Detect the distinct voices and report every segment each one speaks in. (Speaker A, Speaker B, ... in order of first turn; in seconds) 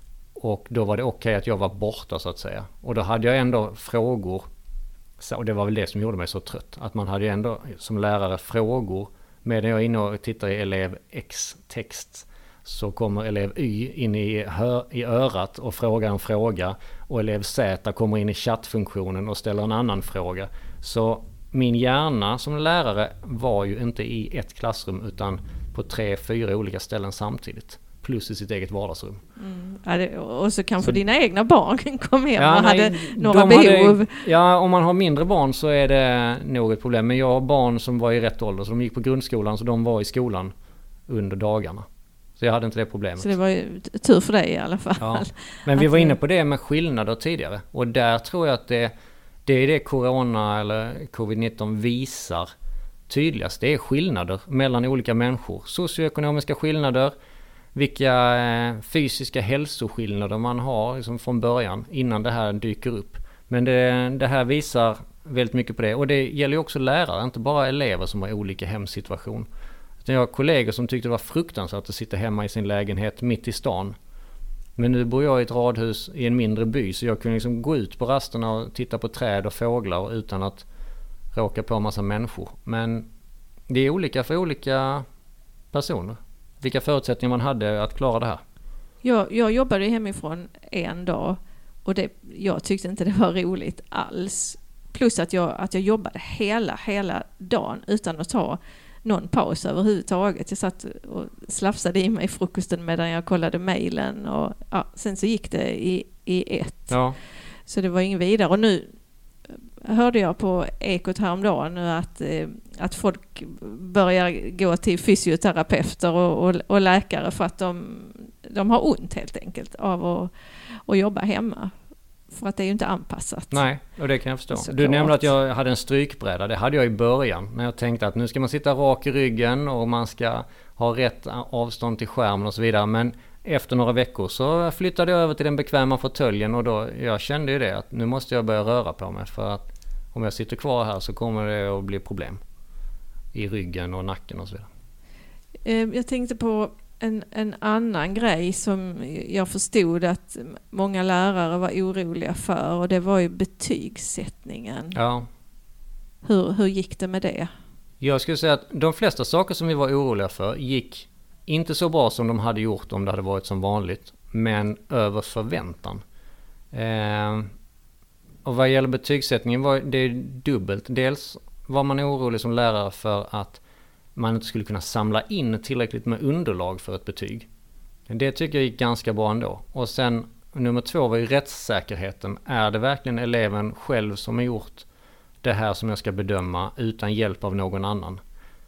Speaker A: 0.3-4.5, 5.2-29.2, 32.4-40.5, 41.1-41.9, 42.4-43.3, 45.0-48.9, 49.4-52.5, 53.1-57.1, 57.7-69.5, 70.0-74.0, 74.8-80.7, 81.3-83.1, 83.7-85.0, 85.7-88.4, 106.9-107.2, 123.5-142.4, 143.3-144.7, 154.9-155.3, 158.0-166.0, 166.7-167.5, 168.4-173.6, 174.1-177.5, 178.1-184.8, 185.4-188.2
Speaker B: 29.4-34.2, 43.2-46.1, 89.0-107.0, 107.7-108.9, 109.8-120.3, 120.8-121.7, 122.3-123.6, 124.5-125.3, 145.6-154.9, 156.2-157.5